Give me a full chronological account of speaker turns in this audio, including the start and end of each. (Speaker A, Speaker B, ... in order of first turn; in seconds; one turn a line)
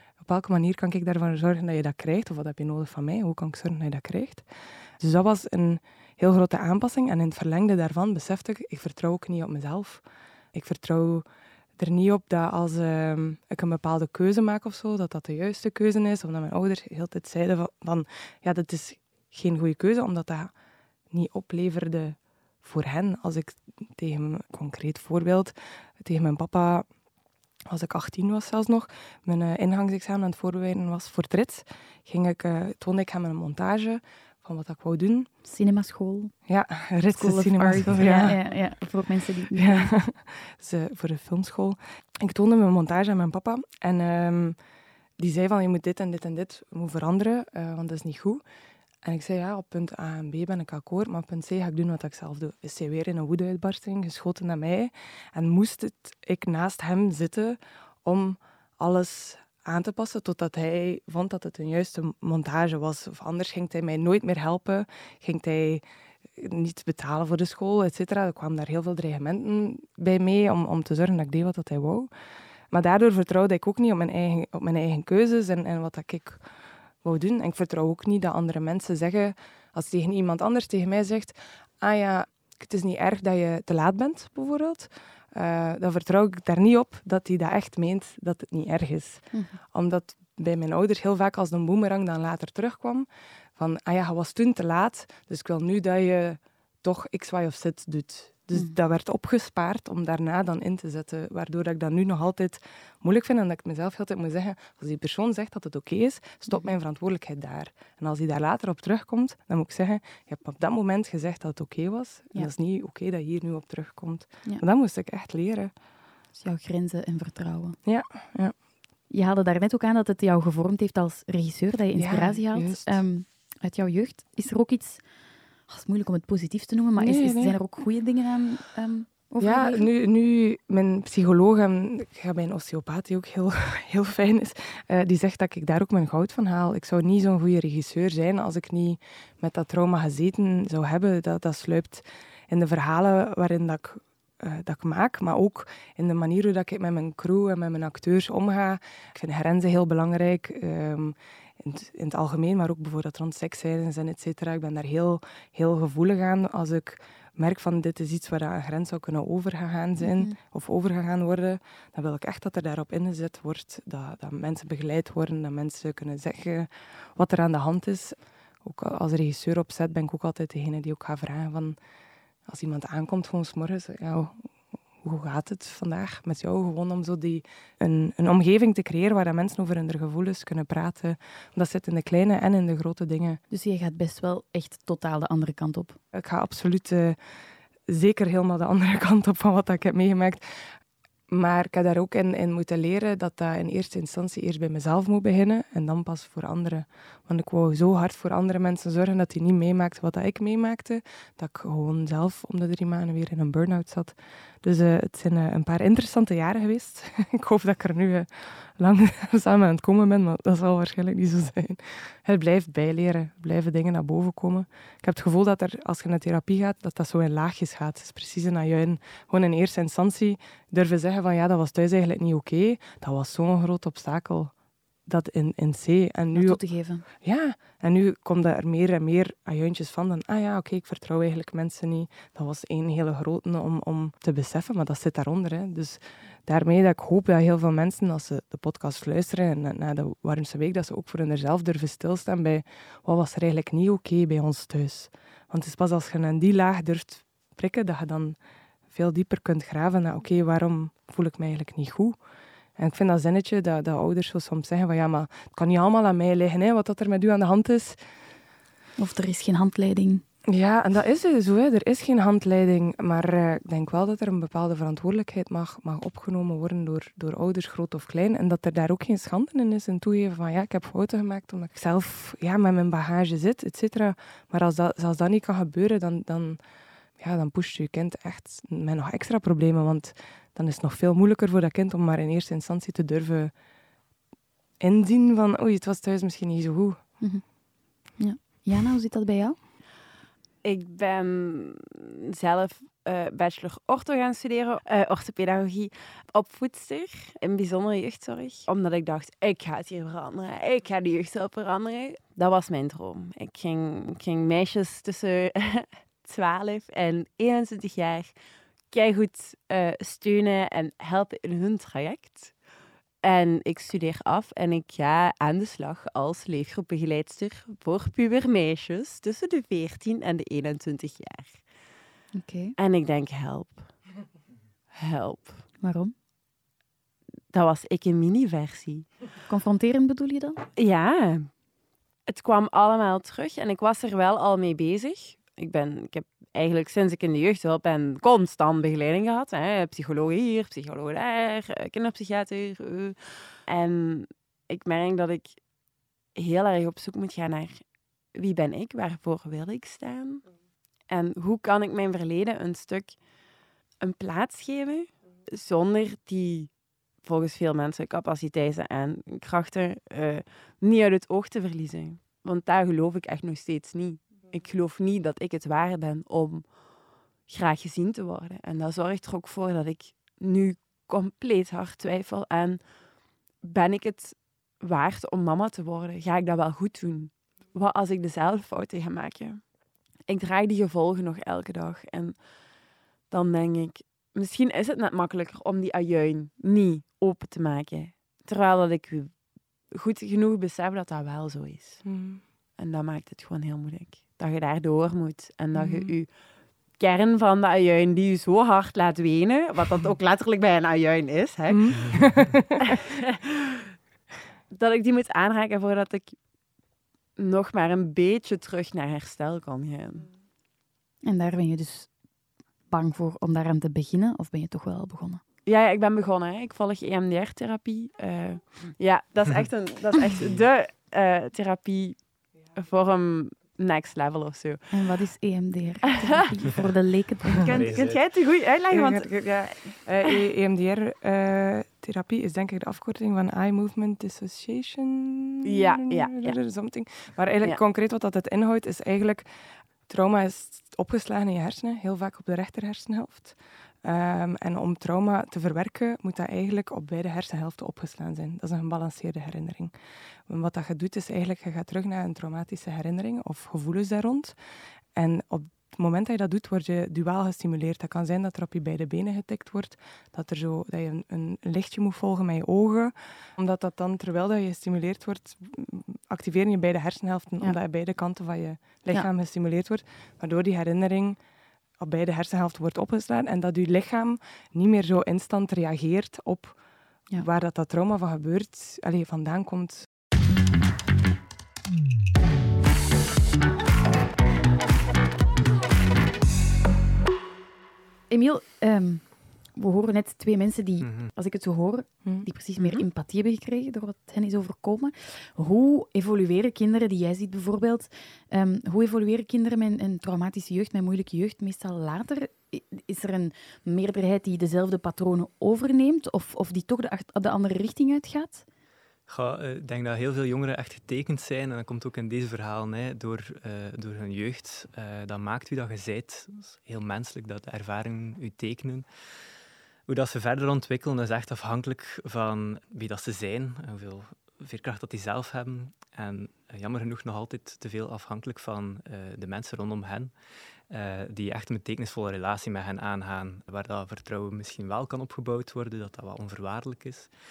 Speaker A: 0.2-4.5
Speaker A: 5.0-11.3
Speaker A: 11.8-20.5
Speaker A: 21.1-26.9
Speaker A: 27.7-35.3
Speaker B: 35.4-36.3
Speaker A: 36.5-38.4
Speaker B: 37.1-39.9
Speaker A: 39.5-44.6
Speaker A: 45.2-48.4
Speaker A: 49.0-65.8
Speaker A: 66.3-72.1
Speaker A: 72.7-76.4
Speaker A: 77.0-115.7
Speaker B: 116.4-117.8
Speaker A: 117.8-118.5
Speaker B: 119.1-125.0
Speaker A: 122.0-123.0
Speaker B: 125.7-129.9
Speaker A: 127.0-127.6
Speaker A: 129.4-171.8
Speaker B: 160.0-160.3
Speaker A: 172.5-174.5
Speaker A: 175.0-183.4
Speaker B: 183.5-186.0
Speaker A: 186.1-187.2
Speaker A: 187.9-190.7
Speaker A: 191.3-224.5
Speaker A: 225.1-226.6
Speaker B: 226.3-227.1
Speaker A: 227.2-248.4
Speaker A: 248.9-252.2
Speaker A: 252.8-258.0
Speaker B: 259.0-260.2
Speaker A: 260.5-276.6
Speaker A: 277.2-283.5
Speaker A: 284.8-287.0
Speaker B: 287.2-287.5
Speaker B: 288.2-289.6
Speaker C: 290.6-308.3
Speaker C: 308.9-312.5
Speaker C: 313.2-321.6
Speaker B: 322.3-322.8
Speaker C: 322.8-323.9
Speaker C: 324.9-325.6
Speaker B: 325.8-326.1
Speaker C: 327.5-329.1
Speaker B: 329.5-330.6
Speaker C: 330.8-331.5
Speaker C: 332.3-345.6
Speaker C: 346.4-347.8
Speaker C: 348.3-350.5
Speaker C: 351.1-353.2
Speaker C: 354.0-356.7
Speaker C: 357.2-366.6
Speaker C: 367.5-372.8
Speaker C: 373.6-379.6
Speaker C: 380.3-382.4
Speaker C: 383.3-389.3
Speaker C: 389.9-392.0
Speaker A: 392.1-392.4
Speaker C: 392.8-396.3
Speaker A: 395.7-396.2
Speaker C: 397.0-402.2
Speaker A: 401.7-403.0
Speaker C: 402.8-403.9
Speaker C: 404.7-406.4
Speaker C: 407.4-410.3
Speaker B: 411.2-412.1
Speaker B: 412.9-415.4
Speaker C: 415.7-422.2
Speaker D: 420.4-420.6
Speaker C: 422.8-424.9
Speaker B: 424.9-427.8
Speaker C: 427.6-429.8
Speaker D: 427.6-428.2
Speaker A: 428.9-439.5
Speaker C: 435.6-436.6
Speaker A: 440.1-449.9
Speaker A: 450.5-454.6
Speaker A: 455.1-471.4
Speaker A: 472.0-476.8
Speaker A: 477.4-480.1
Speaker B: 488.3-508.7
Speaker D: 491.0-491.3
Speaker C: 492.8-493.1
Speaker D: 509.3-519.1
Speaker D: 520.1-530.3
Speaker D: 530.9-537.3